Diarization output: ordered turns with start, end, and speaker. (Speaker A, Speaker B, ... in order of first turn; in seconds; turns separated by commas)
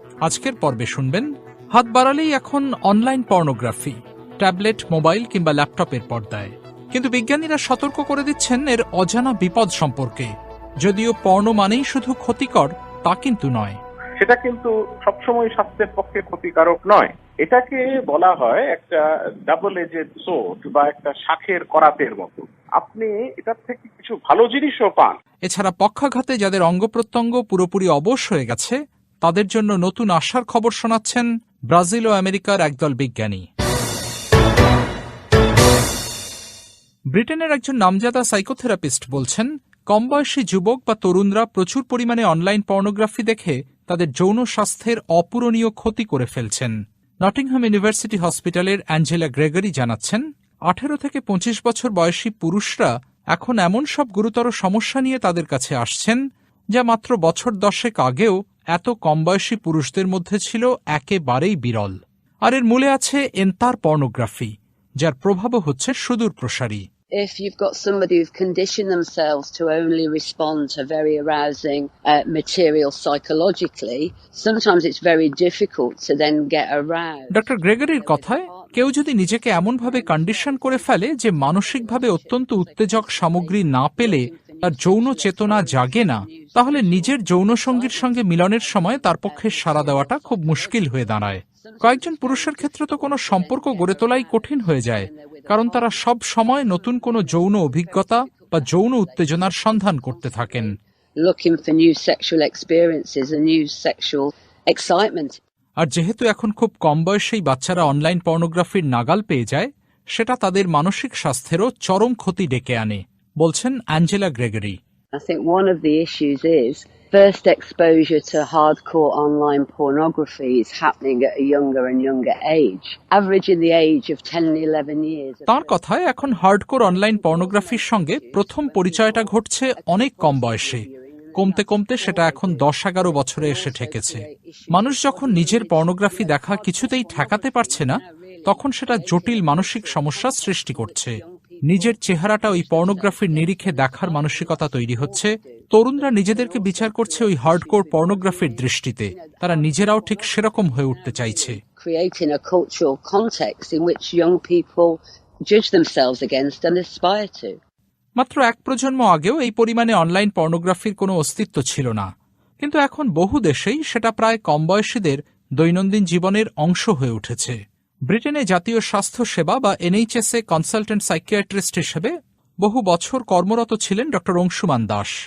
Speaker A: 0.2-10.3, Speaker A: 10.8-13.8, Speaker B: 14.2-25.2, Speaker A: 25.5-33.4, Speaker A: 37.1-46.7, Speaker A: 47.2-56.2, Speaker A: 56.8-66.8, Speaker C: 67.2-105.4, Speaker A: 77.3-100.7, Speaker A: 105.8-114.8, Speaker C: 115.1-126.3, Speaker A: 125.5-130.8, Speaker C: 126.9-157.6, Speaker A: 131.4-151.6, Speaker A: 158.2-162.1, Speaker A: 162.6-167.6, Speaker A: 168.1-175.1